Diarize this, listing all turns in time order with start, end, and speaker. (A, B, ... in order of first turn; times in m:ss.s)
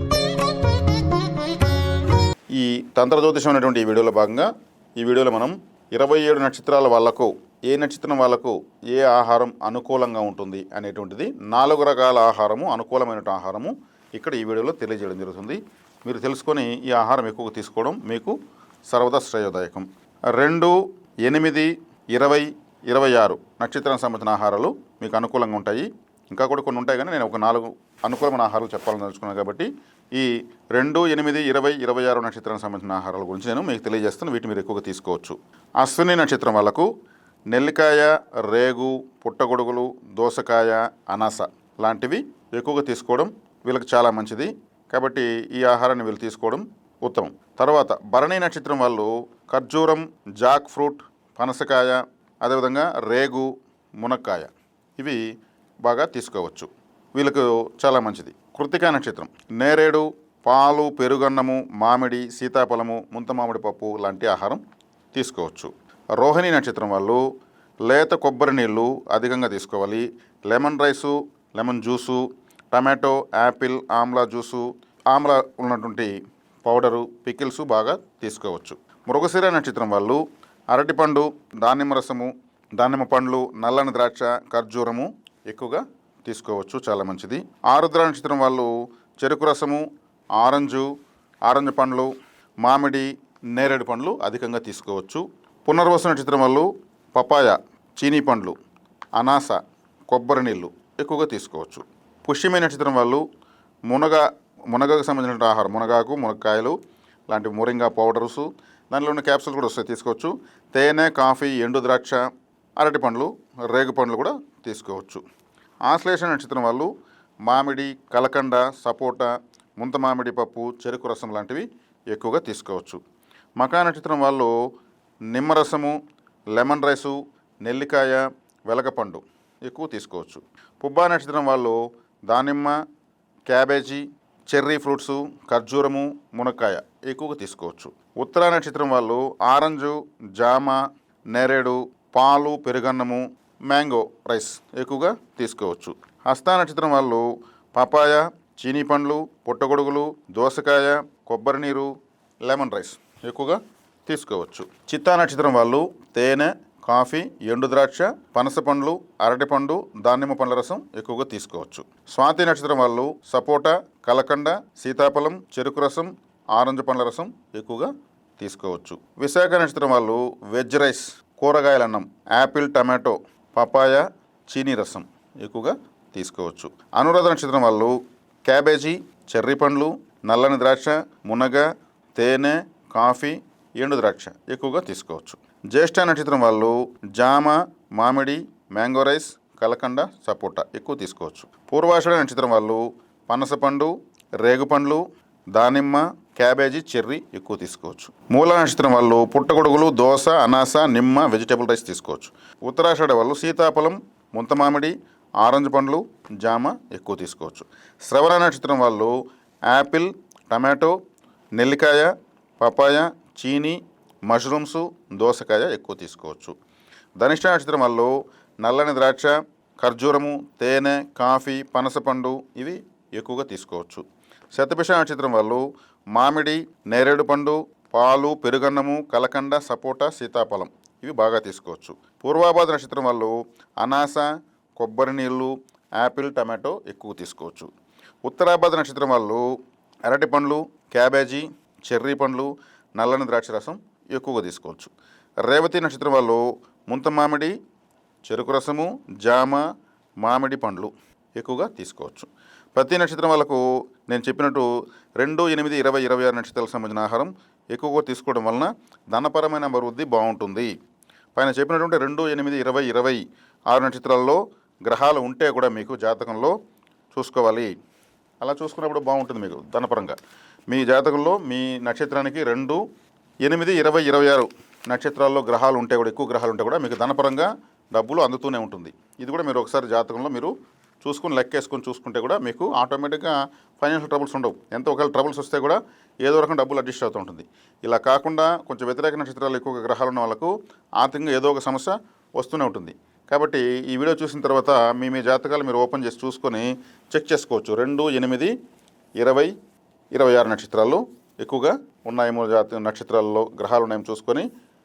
0:02.5-0:18.4 A
0:18.9-0:36.9 A
0:37.5-0:55.2 A
0:55.8-1:04.6 A
1:05.1-1:07.2 A
1:07.8-1:29.8 A
1:30.4-1:30.9 A
1:31.5-1:32.1 A
1:32.6-1:38.6 A
1:39.2-1:43.2 A
1:43.9-1:46.8 A
1:47.3-1:52.2 A
1:52.8-1:55.2 A
1:55.9-1:56.9 A
1:57.4-2:03.0 A
2:03.6-2:04.5 A
2:05.3-2:06.0 A
2:06.5-2:12.8 A
2:13.5-2:20.8 A
2:21.3-2:27.2 A
2:27.7-2:31.9 A
2:32.4-3:13.9 A
3:14.4-3:15.0 A
3:15.6-3:29.1 A
3:29.7-3:31.0 A
3:31.6-3:36.6 A
3:37.2-3:44.0 A
3:44.5-3:57.7 A
3:58.2-3:59.4 A
4:00.1-4:04.9 A
4:05.4-4:07.5 A
4:08.2-4:09.6 A
4:10.2-4:14.7 A
4:15.2-4:20.7 A
4:21.3-4:26.6 A
4:27.1-4:27.7 A
4:28.4-4:30.2 A
4:30.7-4:32.8 A
4:33.4-4:58.5 A
4:59.2-4:59.5 A
5:00.1-5:04.5 A